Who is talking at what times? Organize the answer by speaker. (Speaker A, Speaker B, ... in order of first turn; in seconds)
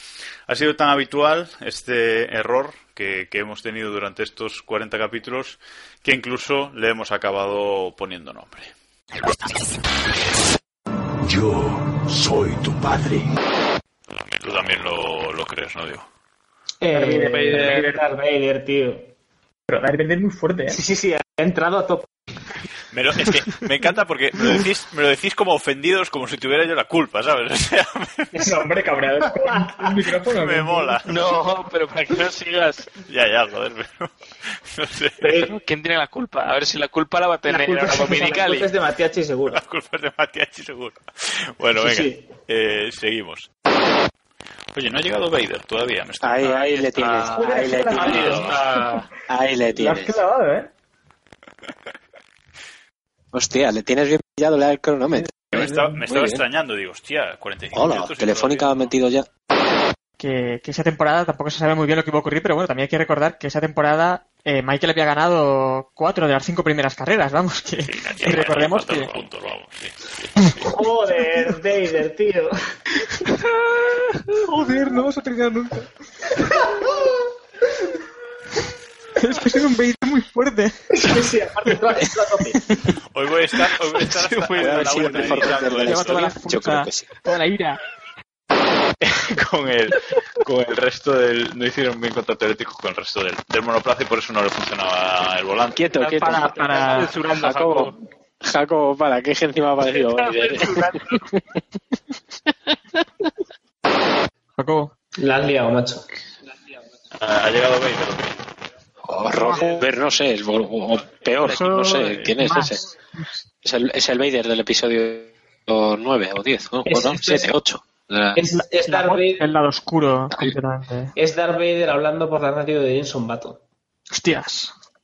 Speaker A: 0.5-8.7, 14.4-16.1, 22.9-28.3, 30.3-31.2, 33.0-34.1, 34.7-35.3, 39.5-43.5, 44.7-46.7, 48.0-48.6, 55.5-58.9, 67.9-70.1, 83.1-86.3, 89.0-95.9, 107.2-108.3
Speaker B: 11.2-13.3
Speaker C: 16.8-19.1, 20.7-22.1, 28.3-28.7, 29.2-30.1, 35.2-35.5, 37.5-39.6, 41.8-42.2, 47.3-48.6, 70.6-72.5, 76.5-77.1, 80.9-82.6, 105.2-106.0, 116.8-117.5, 118.3-119.5, 121.2-123.6
Speaker D: 16.9-17.9, 19.7-20.8, 28.4-31.0, 49.7-50.7
Speaker E: 17.3-17.9, 31.0-32.9, 35.3-38.7, 46.4-49.0, 84.0-85.6, 95.9-98.0, 100.1-100.9
Speaker F: 46.2-48.5, 49.3-50.2, 53.3-56.4, 57.7-59.3, 84.5-87.1, 95.7-101.2, 109.0-112.8, 113.6-118.4
Speaker G: 60.2-69.1, 74.5-75.8, 79.2-80.8, 85.8-87.8, 96.2-97.1, 104.6-104.9, 111.4-113.2, 118.8-121.1, 124.1-124.7